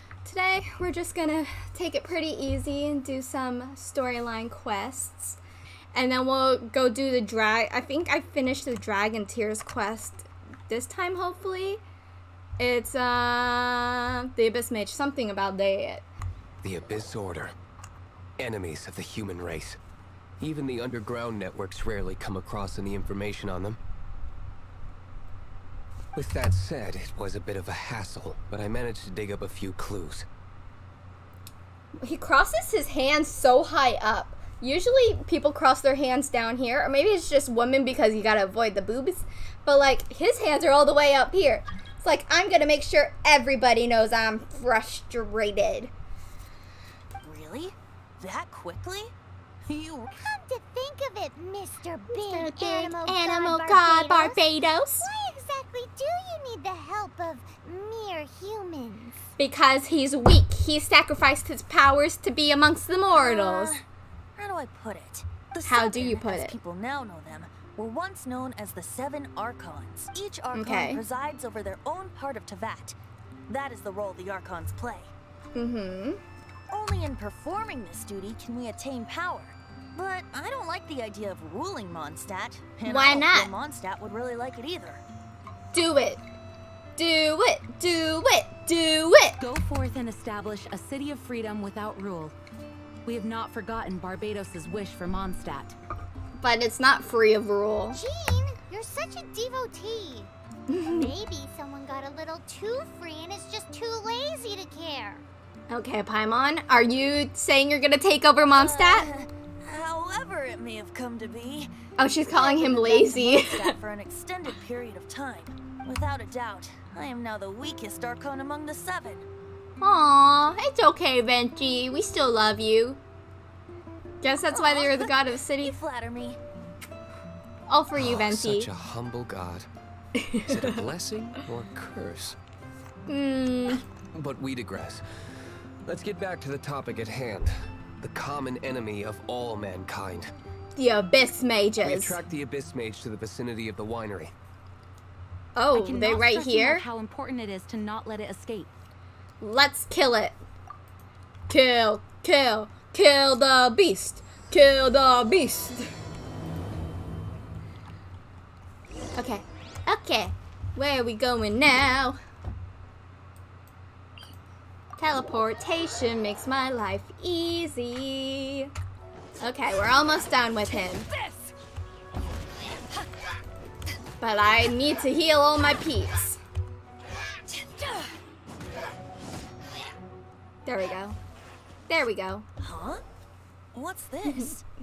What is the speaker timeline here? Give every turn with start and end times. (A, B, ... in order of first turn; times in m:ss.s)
0:00.2-0:05.4 A
0:05.9-0:11.8 A
0:12.6-0:16.0 A
0:16.6-0:17.6 B
0:18.4-0:19.8 B
0:20.4-0:23.8 B
0:26.2-0:30.3 B
0:32.0-0:45.9 A
0:47.2-0:49.1 C
0:49.7-0:50.2 C
0:50.2-0:54.4 D
0:52.1-0:55.1 A
0:55.0-0:59.2 D
0:59.4-1:03.8 A
1:03.1-1:03.8 C
1:04.4-1:13.0 C
1:05.7-1:06.6 A
1:10.5-1:11.0 A
1:13.5-1:15.1 C
1:15.6-1:16.2 A
1:16.7-1:25.0 C
1:22.8-1:23.5 A
1:25.7-1:26.2 A
1:27.0-1:29.4 A
1:29.4-1:32.4 E
1:33.0-1:35.8 E
1:36.4-1:38.0 A
1:37.9-1:40.3 D
1:40.7-1:41.1 A
1:40.9-1:45.2 D
1:45.7-1:49.1 A
1:48.5-1:51.7 C
1:52.0-1:53.8 A
1:52.3-1:59.2 C
1:59.8-2:03.0 A
2:04.2-2:05.8 A
2:04.5-2:06.4 C
2:07.7-2:08.7 A
2:08.0-2:09.7 B
2:10.2-2:10.8 A
2:10.4-2:12.4 B
2:13.1-2:13.8 A
2:14.1-2:15.0 B
2:15.8-2:20.3 B
2:20.8-2:22.2 A
2:21.8-2:24.3 B
2:25.6-2:26.8 A
2:25.7-2:28.7 E
2:29.4-2:30.4 A
2:31.5-2:35.9 A
2:39.2-2:42.2 A
2:45.0-2:48.7 A
2:49.4-2:51.1 A
2:50.7-2:51.5 C
2:54.2-2:56.4 A
2:57.6-2:58.1 C
3:00.7-3:01.2 A
3:01.9-3:02.4 A
3:02.6-3:03.0 C
3:03.7-3:04.6 C
3:04.2-3:04.5 A